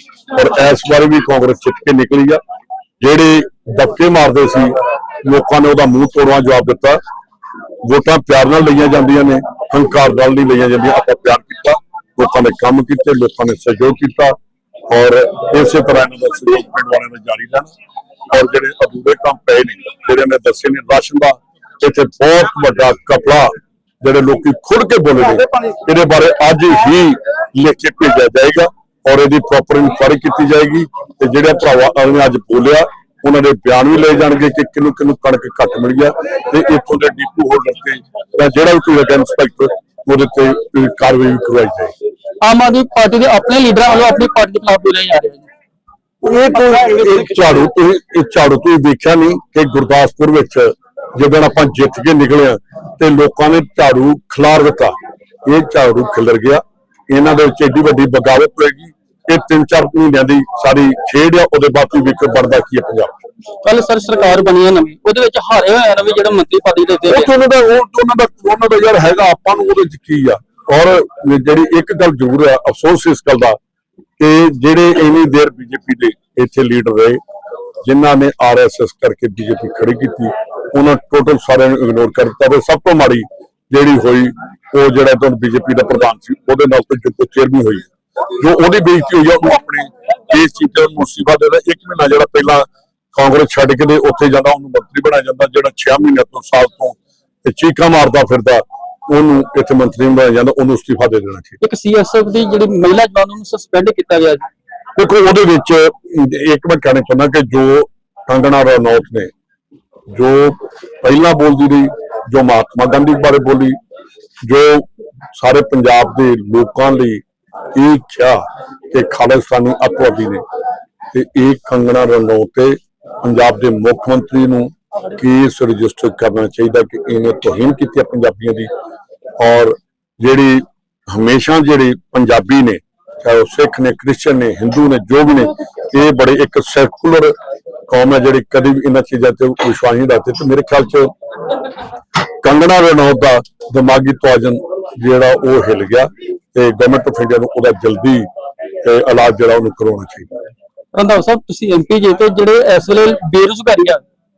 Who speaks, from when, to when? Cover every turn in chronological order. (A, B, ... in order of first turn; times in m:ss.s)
0:00.3-0:02.4 A
0:03.0-0:07.0 A
0:07.8-0:14.4 A
0:14.9-0:17.7 A
0:18.3-0:41.9 A
0:42.4-0:45.4 B
0:46.2-1:03.1 A
1:03.6-1:07.3 B
1:07.1-1:13.6 A
1:14.2-1:17.2 A
1:17.8-1:41.6 A
1:41.6-1:44.5 B
1:45.0-1:49.3 A
1:50.1-1:53.8 A
1:54.4-1:57.2 A
1:57.7-2:00.4 A
2:01.1-2:08.7 A
2:09.4-2:17.4 A
2:17.9-2:21.1 A
2:22.4-2:28.3 A
2:28.8-2:30.3 A
2:30.9-2:34.0 B